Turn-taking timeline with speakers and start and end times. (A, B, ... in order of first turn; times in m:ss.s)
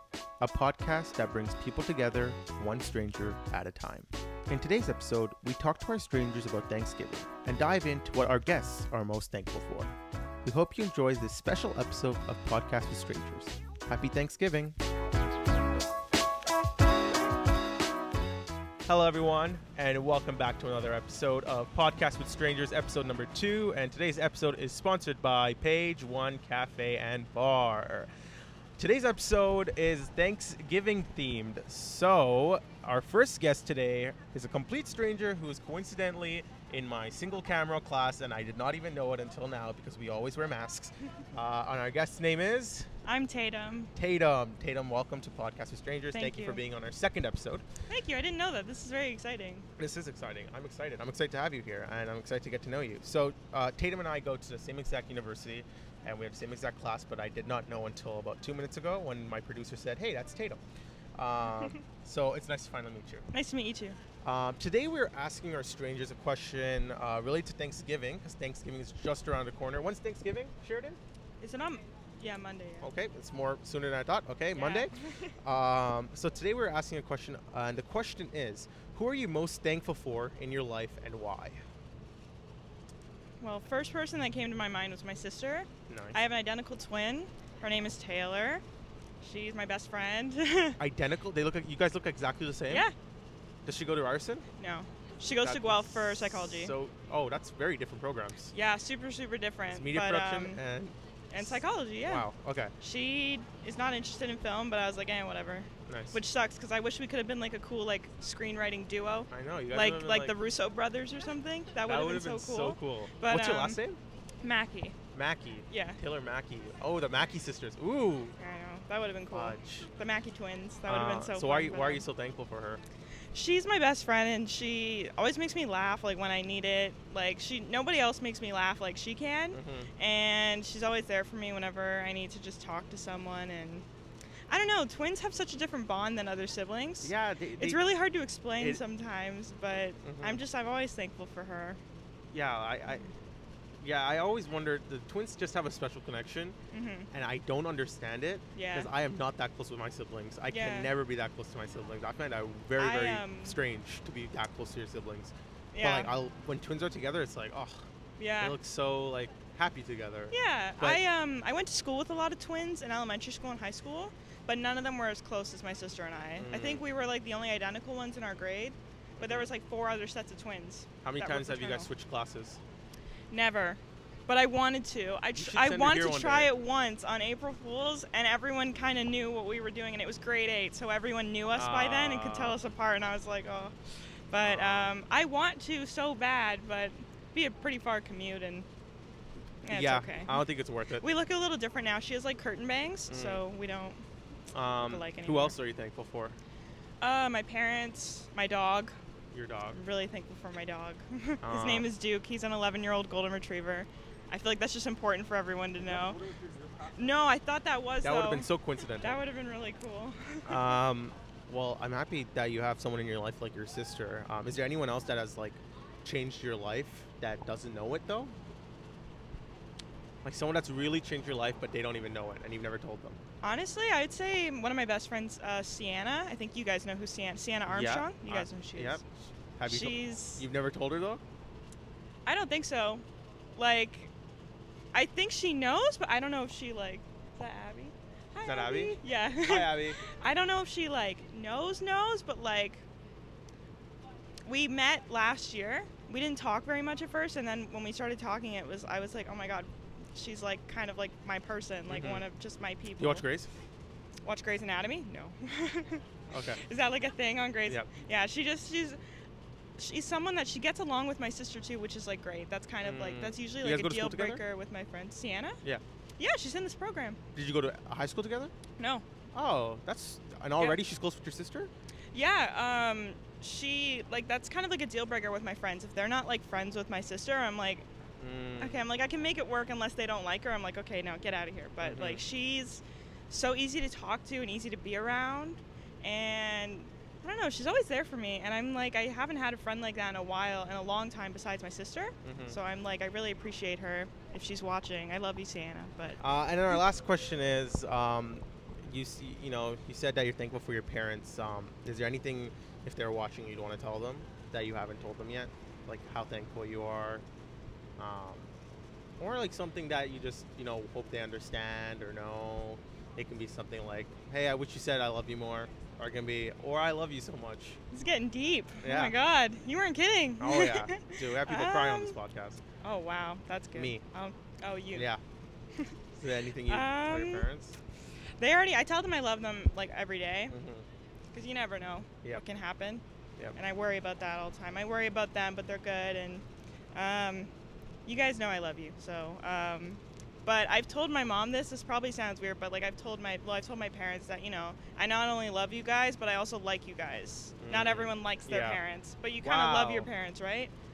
0:00.4-0:09.9 A
0:10.4-0:14.7 A
0:18.8-0:28.1 A
0:28.8-0:42.9 A
0:43.0-0:43.9 B
0:43.9-0:47.6 A
0:46.1-0:46.6 B
0:47.9-0:49.7 B
0:49.8-1:00.6 A
1:01.2-1:03.3 A
1:03.3-1:04.0 B
1:04.2-1:11.0 A
1:11.4-1:12.9 B
1:12.8-1:14.9 A
1:14.5-1:14.9 B
1:15.4-1:21.6 A
1:23.4-1:28.6 B
1:25.9-1:26.2 A
1:29.2-1:30.8 B
1:30.8-1:32.8 A
1:32.7-1:32.9 B
1:33.6-1:34.4 A
1:34.6-1:36.7 B
1:35.4-1:38.5 A
1:38.5-1:40.6 B
1:39.7-1:42.7 A
1:41.3-1:42.3 B
1:42.8-1:53.8 B
1:45.9-1:46.2 A
1:49.3-1:50.3 A
1:51.8-1:54.0 A
1:54.4-1:55.0 B
1:55.1-1:58.3 A
1:55.7-1:56.0 B
1:58.4-2:02.0 B
1:59.3-1:59.9 A
2:00.8-2:02.8 A
2:03.3-2:13.8 B
2:09.5-2:09.9 A
2:14.5-2:21.8 B
2:17.0-2:17.8 A
2:20.0-2:20.4 A
2:22.3-2:23.1 A
2:23.8-2:26.6 A
2:26.7-2:27.1 B
2:27.1-2:37.8 A
2:28.6-2:28.9 B
2:30.5-2:30.9 B
2:32.8-2:33.6 B
2:35.7-2:36.1 B
2:38.2-2:38.6 B
2:38.4-2:41.0 A
2:40.3-2:51.9 B
2:46.4-2:46.8 A
2:49.2-2:49.5 A
2:51.0-2:52.6 A
2:53.3-3:03.7 B
2:55.3-2:56.5 A
3:01.5-3:02.6 A
3:04.3-3:08.7 B
3:04.4-3:04.9 A
3:09.6-3:10.4 B
3:09.7-3:11.0 A
3:11.0-3:14.0 B
3:13.1-3:13.4 A
3:14.5-3:16.4 A
3:14.8-3:15.6 B
3:17.0-3:18.9 B
3:19.3-3:19.8 A
3:19.7-3:26.3 B
3:21.4-3:21.8 A
3:26.9-3:28.5 B
3:28.0-3:29.2 A
3:29.0-3:30.8 B
3:30.4-3:38.3 A
3:40.2-3:43.2 A
3:43.4-3:49.0 B
3:47.7-3:49.0 A
3:49.6-3:51.2 A
3:49.7-3:50.4 B
3:52.2-3:53.0 B
3:53.6-3:54.1 B
3:54.9-4:02.8 B
3:58.4-4:00.0 A
4:04.4-4:13.2 B
4:11.9-4:12.2 A
4:13.0-4:13.5 A
4:14.2-4:16.0 B
4:16.3-4:16.6 A
4:16.6-4:19.0 B
4:19.8-4:25.6 B
4:22.8-4:24.4 A
4:26.2-4:27.2 B
4:27.3-4:28.5 A
4:28.8-4:29.0 B
4:29.3-4:31.7 A
4:32.1-4:37.8 B
4:38.2-4:38.8 A
4:38.6-4:56.2 B
4:41.8-4:42.2 A
4:52.2-4:52.6 A
4:56.2-5:07.2 A
5:08.0-5:08.5 A
5:09.2-5:17.8 A
5:17.9-5:22.2 B
5:18.8-5:19.1 A
5:20.4-5:22.6 A
5:22.8-5:25.1 B
5:23.7-5:24.0 A
5:24.9-5:25.2 A
5:26.2-5:27.8 A
5:26.7-5:27.4 B
5:28.4-5:30.5 B
5:30.5-5:30.8 A
5:31.3-5:33.0 B
5:33.6-5:37.5 B
5:38.0-5:50.7 B
5:47.6-5:48.8 A
5:49.4-5:50.1 A